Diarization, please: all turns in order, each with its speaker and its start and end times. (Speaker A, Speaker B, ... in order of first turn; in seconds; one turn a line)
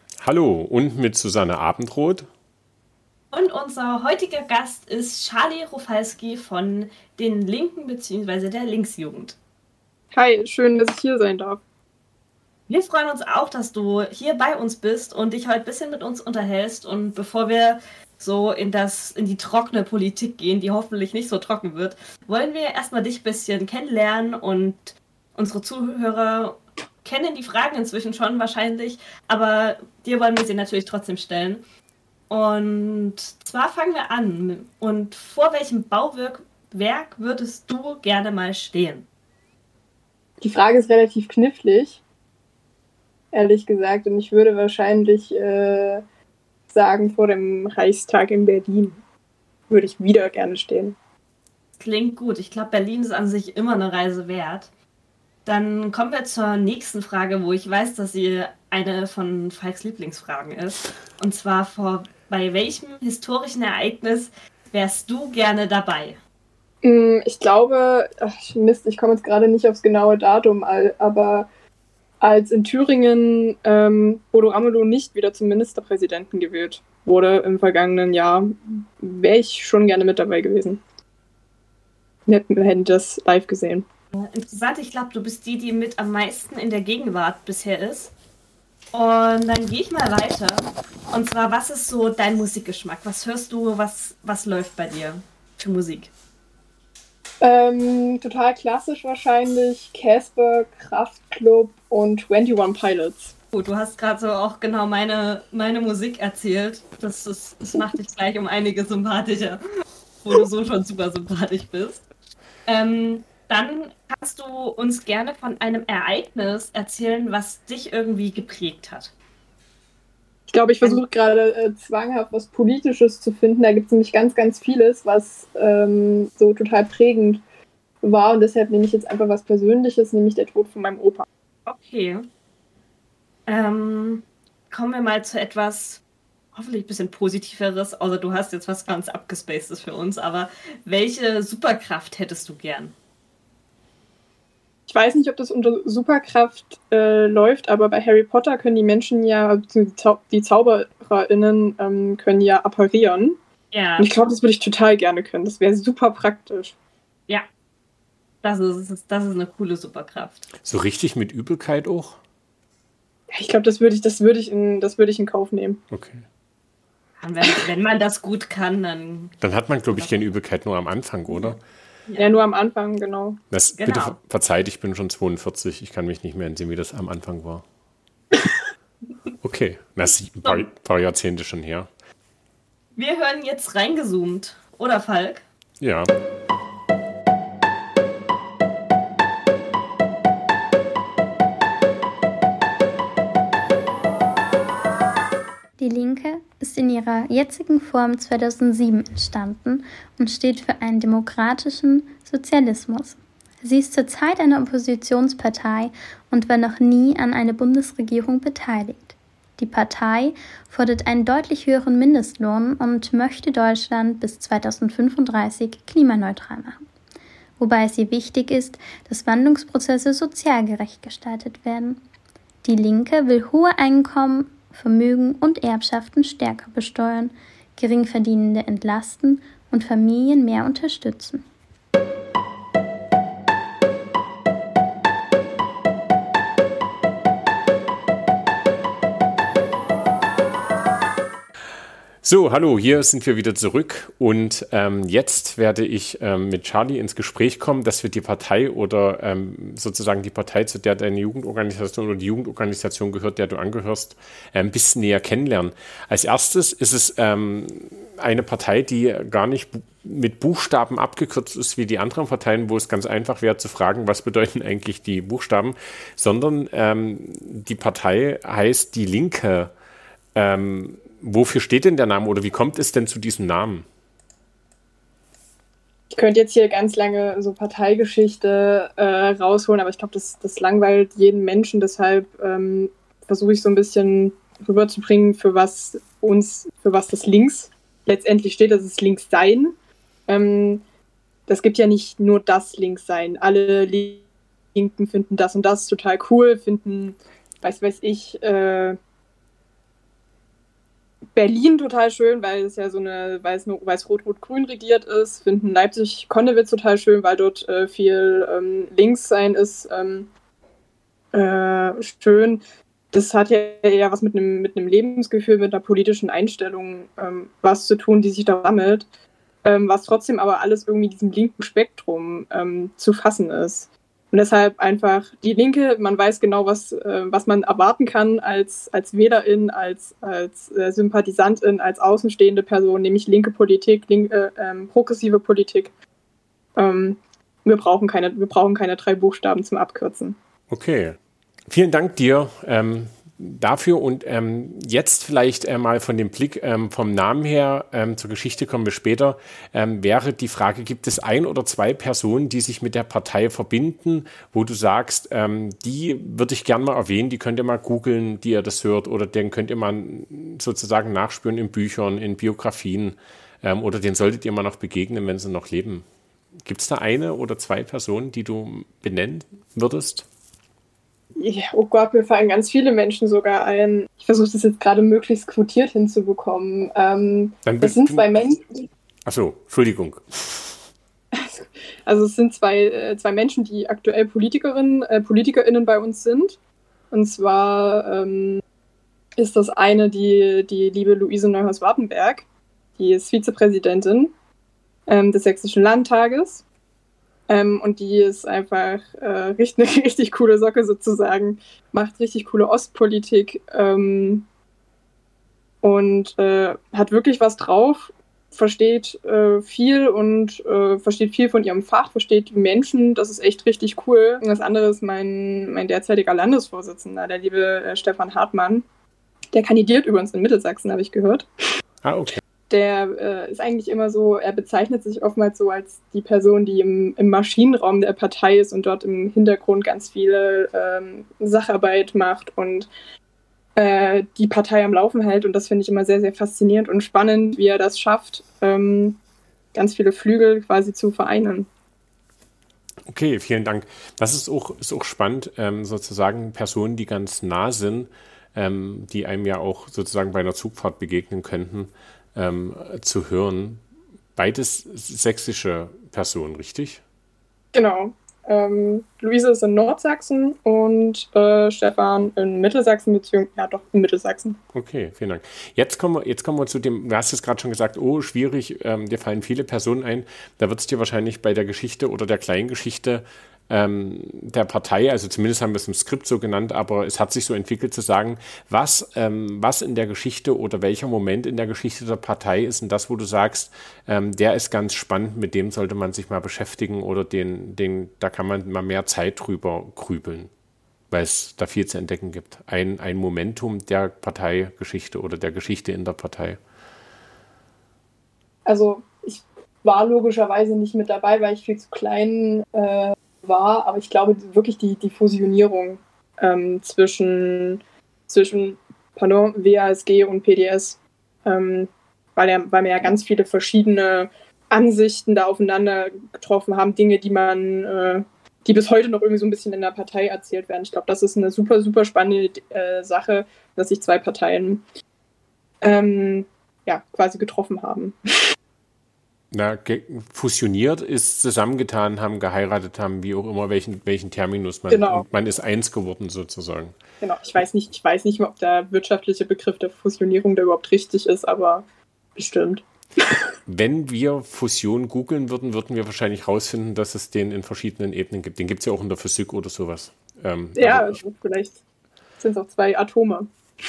Speaker A: 0.2-2.3
Speaker B: 3.3-9.3
Speaker C: 10.1-11.6
Speaker B: 12.7-31.6
Speaker B: 32.3-39.0
Speaker C: 40.4-42.0
Speaker C: 43.3-46.0
Speaker C: 46.7-49.0
Speaker C: 49.7-51.0
Speaker B: 51.8-54.7
Speaker B: 55.4-66.2
Speaker C: 66.8-71.5
Speaker C: 72.2-80.8
Speaker C: 82.3-83.8
Speaker B: 84.2-88.1
Speaker B: 88.9-96.1
Speaker C: 97.4-103.3
Speaker B: 103.5-109.6
Speaker B: 110.2-112.0
Speaker B: 112.7-119.1
Speaker C: 120.5-127.4
Speaker C: 128.0-131.2
Speaker B: 131.7-132.3
Speaker B: 133.5-136.0
Speaker B: 136.5-142.9
Speaker C: 144.9-153.4
Speaker B: 153.7-154.1
Speaker C: 154.0-156.7
Speaker B: 158.4-160.5
Speaker A: 160.6-162.2
Speaker C: 163.3-165.8
Speaker A: 165.9-166.2
Speaker B: 167.2-169.3
Speaker A: 169.4-171.6
Speaker B: 169.9-170.3
Speaker B: 172.1-172.3
Speaker C: 172.2-173.4
Speaker A: 173.5-177.6
Speaker B: 173.8-174.2
Speaker A: 179.4-181.9
Speaker B: 182.9-185.4
Speaker A: 185.8-186.1
Speaker D: 195.8-216.8
Speaker D: 217.6-222.0
Speaker D: 222.6-231.4
Speaker A: 242.2-269.7
Speaker A: 270.3-273.8
Speaker C: 276.1-289.7
Speaker C: 290.3-290.8
Speaker C: 291.5-299.0
Speaker C: 301.3-310.3
Speaker C: 311.3-319.1
Speaker C: 319.6-335.9
Speaker C: 336.8-340.4
Speaker A: 340.7-341.2
Speaker A: 341.7-366.1
Speaker A: 366.6-370.2
Speaker C: 371.4-378.9
Speaker A: 377.6-378.3
Speaker A: 379.2-380.8
Speaker C: 381.3-386.6
Speaker C: 387.1-388.6
Speaker C: 389.4-392.4
Speaker C: 393.0-394.3
Speaker C: 395.1-396.6
Speaker C: 397.5-404.5
Speaker C: 405.8-418.9
Speaker C: 419.5-421.4
Speaker A: 422.0-422.4
Speaker C: 422.7-432.9
Speaker C: 433.8-439.2
Speaker C: 439.7-441.7
Speaker A: 443.1-453.8
Speaker A: 454.4-457.0
Speaker C: 457.7-464.6
Speaker A: 464.7-490.5
Speaker A: 491.1-496.6
Speaker C: 498.6-524.8
Speaker C: 525.8-528.2
Speaker A: 529.5-537.0
Speaker C: 534.9-535.2
Speaker C: 537.2-541.8
Speaker C: 542.4-543.4
Speaker A: 543.7-551.2
Speaker C: 550.8-551.8
Speaker C: 552.4-553.5